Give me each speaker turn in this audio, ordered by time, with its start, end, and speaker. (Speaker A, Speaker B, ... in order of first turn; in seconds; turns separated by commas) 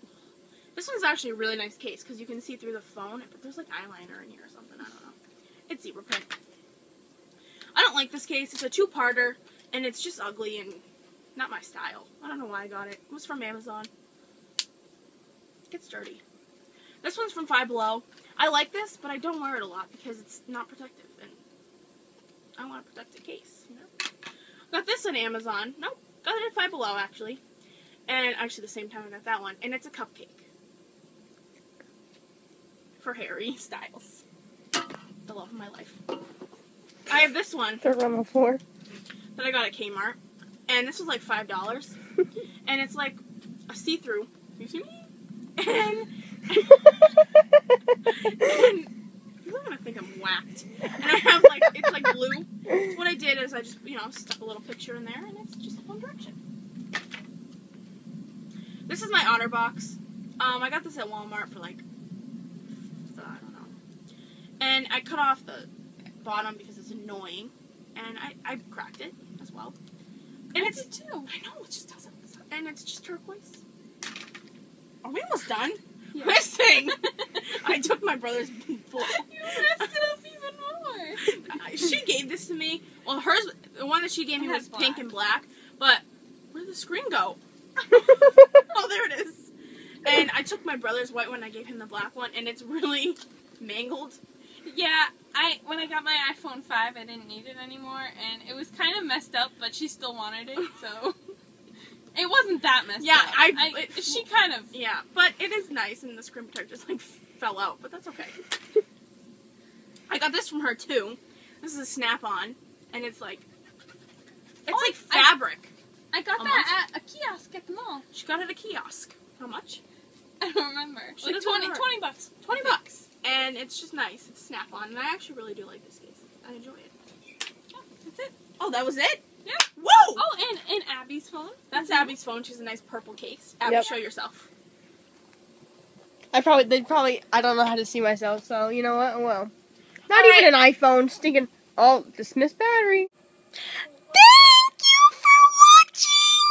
Speaker A: 0.8-5.2, Speaker A: 5.7-6.4, Speaker A: 7.8-10.8, Speaker A: 11.4-13.9, Speaker A: 15.7-16.2, Speaker A: 17.0-21.4, Speaker A: 22.6-23.9, Speaker A: 24.7-27.4, Speaker A: 28.1-30.5, Speaker A: 33.0-34.2, Speaker A: 35.3-36.0, Speaker A: 37.1-37.8, Speaker B: 37.8-38.6, Speaker A: 39.4-42.0, Speaker A: 42.6-47.2, Speaker A: 48.1-48.9, Speaker A: 49.4-56.4, Speaker A: 58.9-61.8, Speaker A: 63.1-63.8, Speaker A: 64.6-65.7, Speaker A: 66.2-69.8, Speaker A: 70.5-73.6, Speaker C: 70.5-71.3, Speaker A: 75.0-79.8, Speaker C: 76.1-77.4, Speaker C: 79.0-81.3, Speaker A: 81.2-89.5, Speaker C: 84.4-85.1, Speaker A: 90.0-94.2, Speaker C: 94.6-101.2, Speaker C: 102.1-104.7, Speaker A: 103.0-108.5, Speaker A: 110.1-113.5, Speaker C: 114.7-115.4, Speaker A: 114.7-115.7, Speaker C: 116.1-118.1, Speaker A: 116.4-116.7, Speaker A: 118.1-119.8, Speaker C: 120.4-123.0, Speaker A: 121.2-121.9, Speaker A: 122.4-126.9, Speaker C: 127.7-128.3, Speaker A: 128.6-130.3, Speaker C: 129.4-132.1, Speaker A: 131.7-134.5, Speaker B: 136.3-139.5, Speaker C: 140.1-140.5, Speaker B: 140.1-143.1, Speaker C: 144.1-144.8, Speaker B: 145.3-146.3